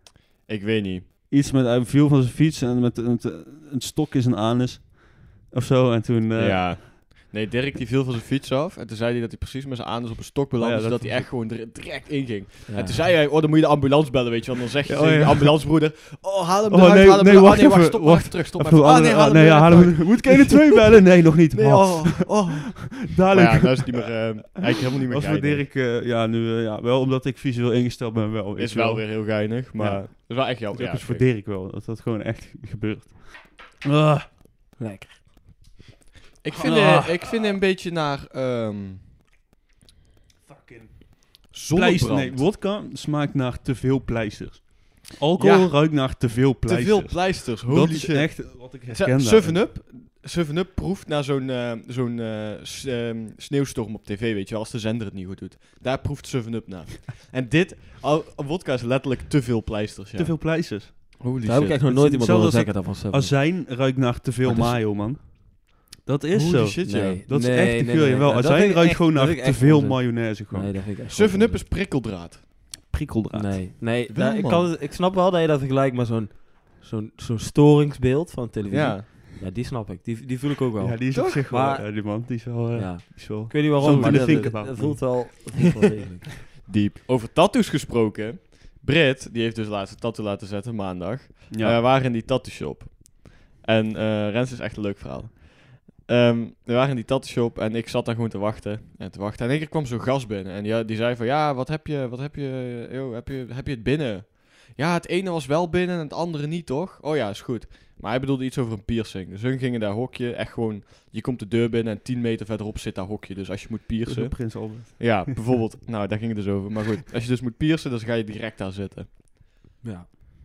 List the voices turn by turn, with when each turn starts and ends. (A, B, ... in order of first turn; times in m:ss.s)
0:00.5-0:01.1 A
0:01.3-0:06.8 B
0:06.3-0:25.7 A
0:10.6-0:11.3 B
0:12.7-0:13.1 C
0:14.9-0:15.9 B
0:16.7-0:24.1 B
0:25.1-0:34.3 B
0:28.6-0:31.3 A
0:34.8-0:35.2 C
0:36.4-0:39.0 A
0:36.5-0:37.5 B
0:40.4-0:49.6 B
0:41.5-0:42.4 A
0:45.4-1:01.8 A
1:00.2-1:01.2 B
1:01.4-1:03.4 C
1:01.9-1:10.8 B
1:04.4-1:04.8 C
1:06.3-1:07.2 A
1:06.8-1:11.6 C
1:11.1-1:12.5 A
1:12.9-1:13.8 B
1:13.3-1:26.3 C
1:14.1-1:14.7 A
1:18.7-1:19.1 A
1:20.8-1:25.6 B
1:21.1-1:21.4 A
1:23.8-1:24.5 A
1:26.5-1:59.2 A
1:31.5-1:31.8 B
1:54.0-1:55.4 B
1:59.8-2:00.1 C